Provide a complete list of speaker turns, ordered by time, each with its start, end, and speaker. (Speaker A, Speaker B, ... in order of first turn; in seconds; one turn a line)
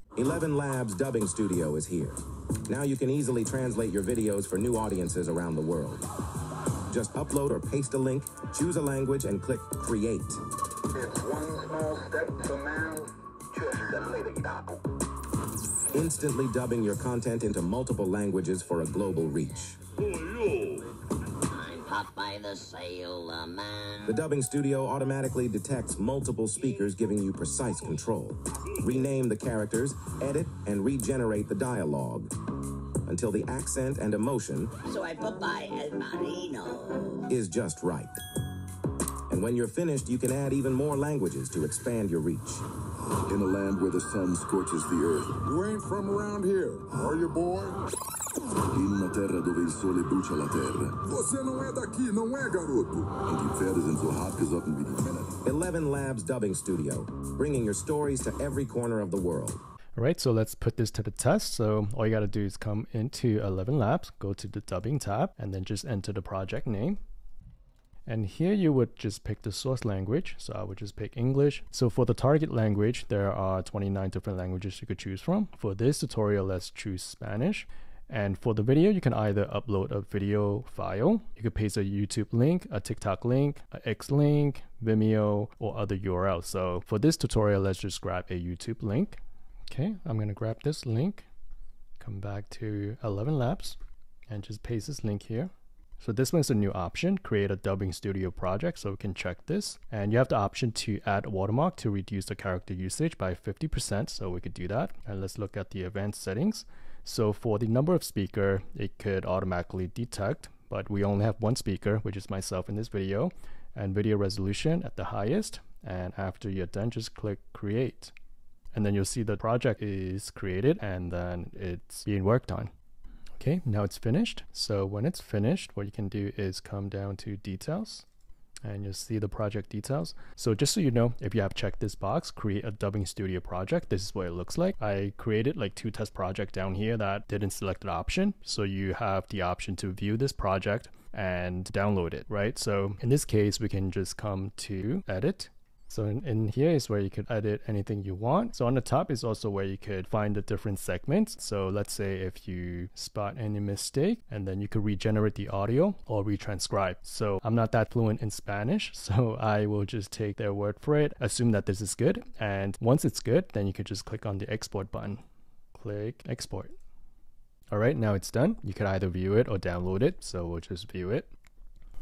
Speaker A: 0.1-6.0
Speaker A: 6.9-10.4
Speaker B: 10.9-14.8
Speaker A: 15.9-19.8
Speaker C: 20.0-20.9
Speaker C: 21.5-24.1
Speaker A: 24.0-32.3
Speaker A: 33.0-34.7
Speaker C: 34.9-37.2
Speaker A: 37.3-38.2
Speaker A: 39.3-42.6
Speaker D: 43.2-45.4
Speaker E: 45.4-47.8
Speaker D: 48.6-51.0
Speaker E: 51.0-53.1
Speaker D: 53.1-55.4
Speaker A: 55.4-59.6
Speaker F: 60.0-67.0
Speaker F: 68.0-91.2
Speaker F: 92.0-93.8
Speaker F: 94.3-118.1
Speaker F: 118.7-122.7
Speaker F: 123.4-128.1
Speaker F: 128.6-165.2
Speaker F: 165.7-166.7
Speaker F: 167.7-171.3